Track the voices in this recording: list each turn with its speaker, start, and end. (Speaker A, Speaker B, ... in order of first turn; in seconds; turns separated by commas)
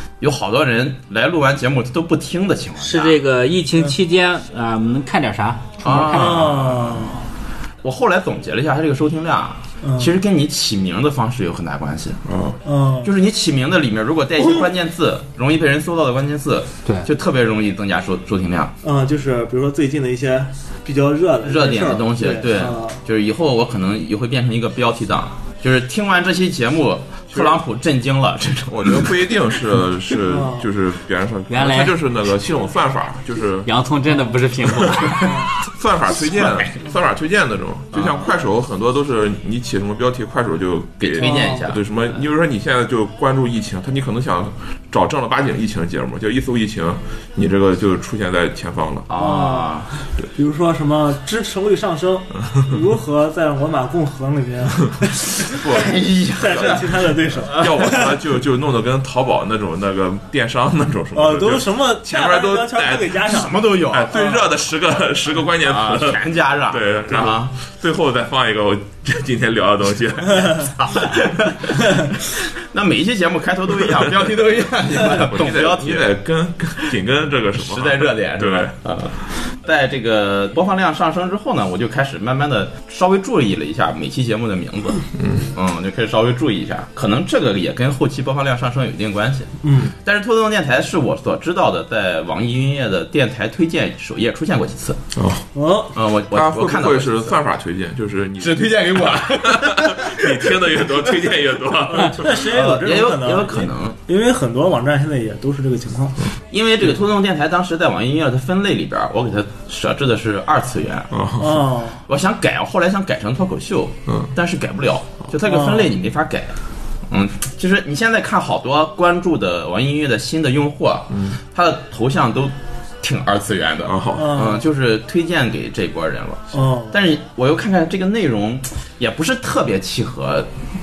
Speaker A: 0.2-3.2, Speaker B: 2.8-6.5, Speaker A: 5.8-7.2, Speaker C: 6.1-7.2, Speaker A: 7.8-12.2, Speaker C: 9.8-10.2, Speaker D: 12.2-12.6, Speaker C: 12.7-13.1, Speaker A: 13.0-18.8, Speaker C: 14.4-14.7, Speaker C: 18.8-23.0, Speaker A: 21.4-29.4, Speaker D: 27.3-27.6, Speaker D: 28.7-33.7, Speaker C: 30.3-30.7, Speaker B: 31.5-32.0, Speaker B: 33.6-35.5, Speaker D: 34.7-49.1, Speaker C: 35.2-35.5, Speaker A: 36.3-36.8, Speaker A: 37.9-38.2, Speaker A: 41.0-41.8, Speaker C: 41.2-41.6, Speaker A: 49.1-49.9, Speaker C: 49.2-49.7, Speaker C: 50.4-55.4, Speaker A: 55.5-57.7, Speaker D: 55.5-70.7, Speaker C: 56.4-58.2, Speaker C: 61.1-63.6, Speaker A: 63.2-64.3, Speaker A: 65.6-67.5, Speaker A: 70.6-76.1, Speaker D: 75.0-78.8, Speaker A: 77.6-95.0, Speaker D: 85.2-85.5, Speaker C: 89.6-89.9, Speaker D: 95.1-95.5, Speaker C: 95.5-96.0, Speaker A: 95.9-97.4, Speaker D: 96.3-102.5, Speaker A: 98.4-101.3, Speaker C: 101.9-106.3, Speaker A: 102.2-104.0, Speaker A: 106.5-111.2, Speaker D: 111.1-111.7, Speaker C: 111.4-112.0, Speaker A: 112.1-116.5, Speaker C: 115.4-115.9, Speaker A: 117.1-130.5, Speaker D: 123.8-124.4, Speaker C: 124.1-124.7, Speaker C: 126.5-127.0